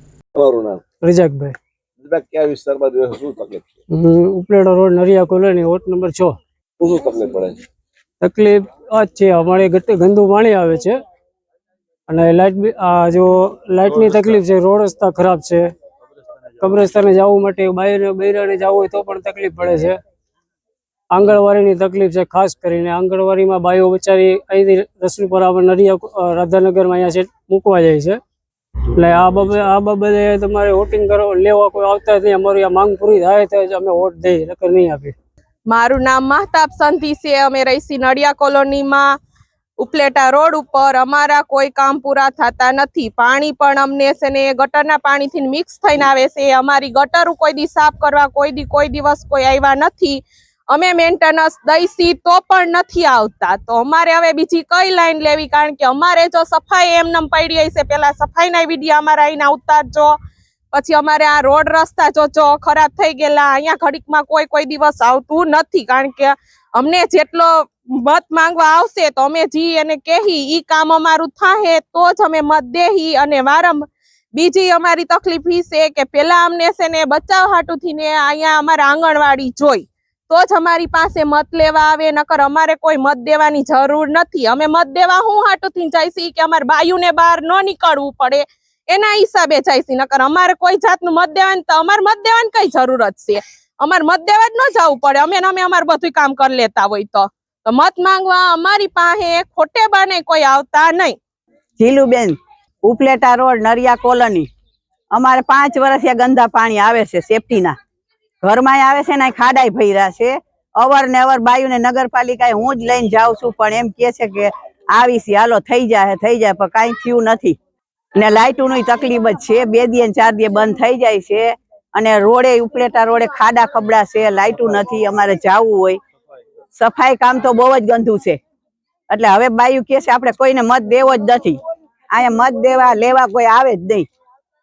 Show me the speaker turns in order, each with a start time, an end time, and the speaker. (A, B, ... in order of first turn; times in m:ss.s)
0:00.4-0:00.8 A
0:01.0-0:01.6 B
0:02.0-0:03.7 A
0:03.9-0:06.4 B
0:06.8-0:07.6 A
0:08.2-0:11.0 B
0:12.1-0:15.7 B
0:16.6-0:20.0 B
0:21.1-0:28.2 B
0:29.0-0:35.1 B
0:35.7-0:39.1 C
0:39.8-1:00.2 C
1:00.7-1:41.2 C
1:41.8-1:44.5 D
1:45.1-1:47.8 D
1:48.4-1:57.6 D
1:58.2-2:06.0 D
2:06.8-2:08.4 D
2:09.1-2:11.6 D
2:12.1-2:14.1 D